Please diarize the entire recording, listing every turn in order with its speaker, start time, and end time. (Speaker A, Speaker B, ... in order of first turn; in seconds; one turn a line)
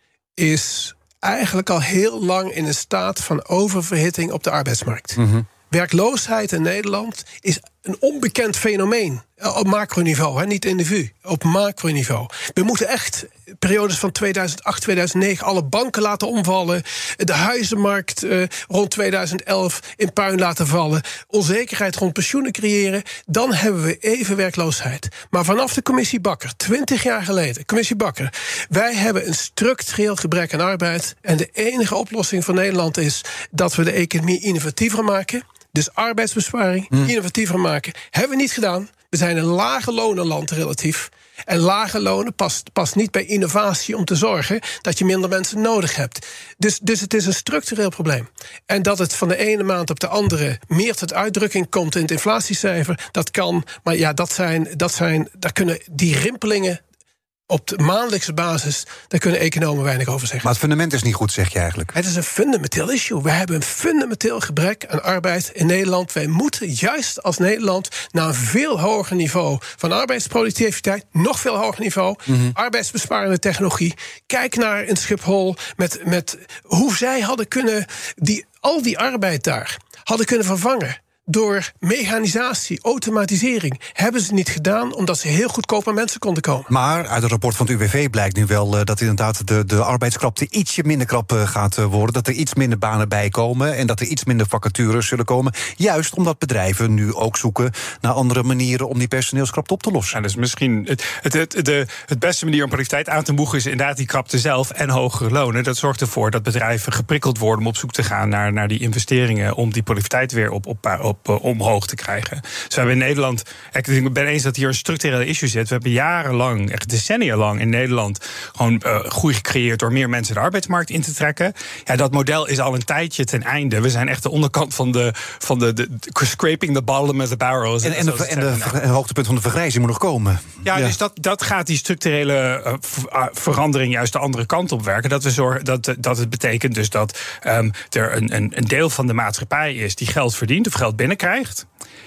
Speaker A: 0.4-56.8
Speaker B: 5.2-5.5
Speaker A: 57.5-60.5
Speaker B: 60.4-61.9
Speaker A: 61.9-86.7
Speaker B: 72.3-72.5
Speaker B: 86.7-100.2
Speaker C: 100.1-128.8
Speaker B: 127.8-130.9
Speaker C: 130.6-141.7